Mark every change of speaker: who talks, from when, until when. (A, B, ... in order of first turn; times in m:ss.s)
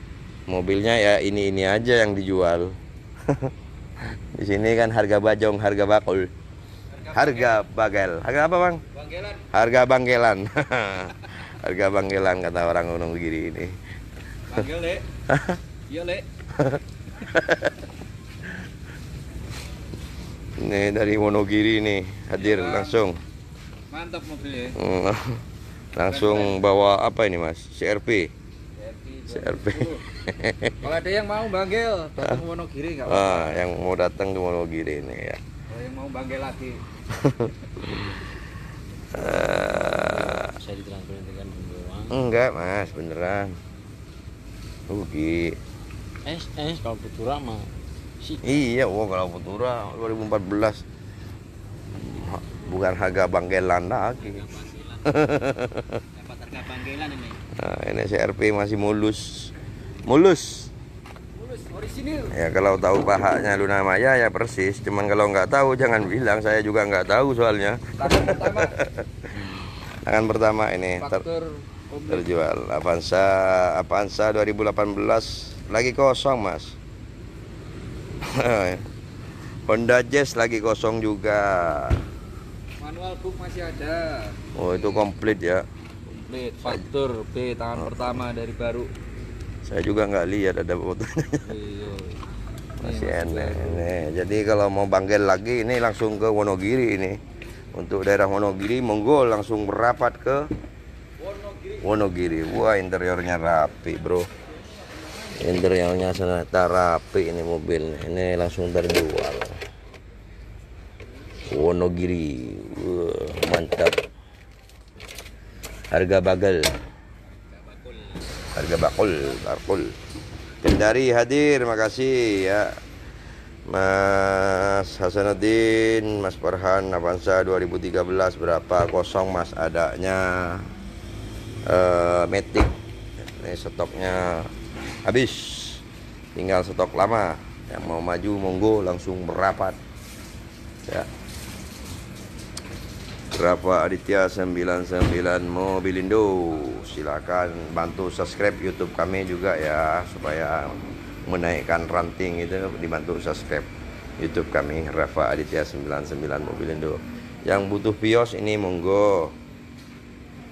0:00.5-0:03.5 A
0:04.1-0:06.3 A
0:07.0-0:07.6 B
0:07.1-0:08.8 A
0:08.9-0:09.4 B
0:09.5-0:13.8 A
0:14.5-0:15.1 B
0:15.3-0:15.6 A
0:15.9-0:16.3 B
0:16.6-0:17.7 A
0:20.6-0:23.2 A
0:22.4-0:23.0 B
0:23.9-0:24.8 B
0:24.8-0:25.4 A
0:26.0-0:28.3 A
0:26.0-0:26.6 B
0:28.8-0:30.0 B
0:29.3-0:30.8 A
0:30.8-0:33.6 B
0:33.1-0:35.4 A
0:35.7-0:36.8 B
0:37.1-0:38.0 A
0:39.1-0:40.5 A
0:39.2-0:42.2 C
0:42.1-0:43.6 A
0:44.9-0:45.6 A
0:46.2-0:48.6 C
0:48.4-0:50.8 A
0:52.0-0:56.0 A
0:54.4-0:54.8 B
0:56.2-0:57.4 B
0:57.6-0:59.5 A
1:00.1-1:00.7 A
1:01.4-1:02.3 B
1:02.3-1:09.1 A
1:08.0-1:08.7 B
1:10.0-1:11.2 A
1:11.0-1:12.3 B
1:12.1-1:16.8 A
1:18.3-1:18.8 A
1:19.7-1:22.0 A
1:22.8-1:25.0 B
1:24.6-1:25.6 A
1:26.1-1:28.9 B
1:27.8-1:28.1 A
1:29.6-1:31.5 A
1:31.4-1:32.2 B
1:32.8-1:33.8 B
1:32.8-1:37.2 A
1:37.7-1:40.5 A
1:41.8-1:44.3 A
1:45.4-1:49.6 A
1:51.5-1:54.0 A
1:55.9-1:56.7 A
1:57.6-1:58.0 B
1:58.5-1:59.9 A
2:00.6-2:02.8 A
2:03.7-2:10.7 A
2:11.7-2:12.7 A
2:13.3-2:14.5 A
2:15.0-2:15.8 A
2:16.4-2:19.8 A
2:23.3-2:39.4 A